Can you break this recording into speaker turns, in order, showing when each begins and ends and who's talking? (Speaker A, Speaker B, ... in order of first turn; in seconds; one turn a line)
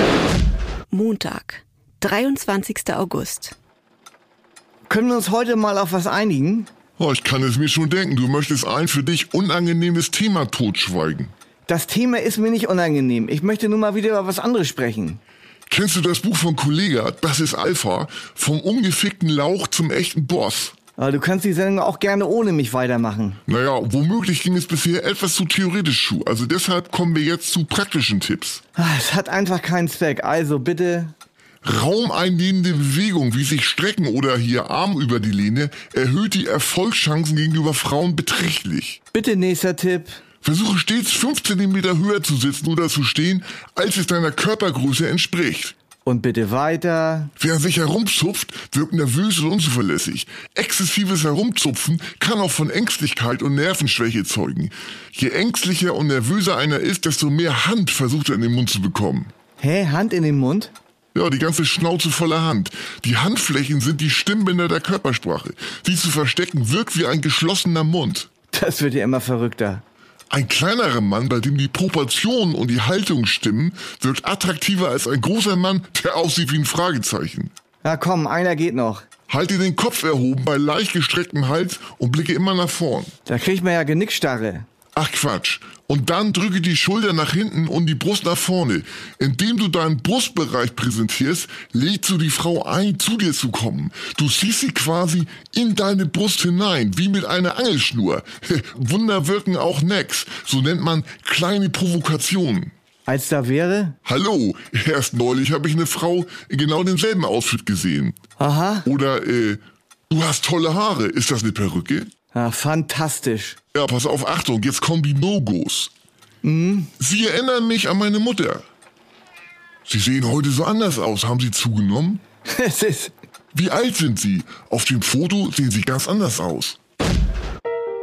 Speaker A: 0.9-3.5
Speaker B: 4.9-6.7
Speaker C: 7.0-11.3
Speaker B: 11.7-15.2
Speaker C: 15.7-20.8
Speaker B: 21.0-23.4
Speaker C: 23.5-28.6
Speaker B: 28.8-31.1
Speaker C: 31.6-39.0
Speaker B: 39.1-40.2
Speaker C: 40.4-45.7
Speaker B: 46.0-47.3
Speaker C: 47.4-59.3
Speaker B: 59.6-60.7
Speaker C: 61.1-68.3
Speaker B: 68.5-69.8
Speaker C: 70.3-77.5
Speaker B: 77.8-79.0
Speaker C: 79.3-83.1
Speaker B: 83.2-84.7
Speaker C: 84.9-102.7
Speaker B: 103.1-104.0
Speaker C: 104.0-108.2
Speaker B: 108.4-108.9
Speaker C: 108.8-112.1
Speaker B: 112.3-113.6
Speaker C: 113.7-115.9
Speaker B: 116.4-116.9
Speaker C: 117.0-118.6
Speaker C: 119.9-122.2
Speaker B: 122.5-123.1
Speaker C: 123.5-126.8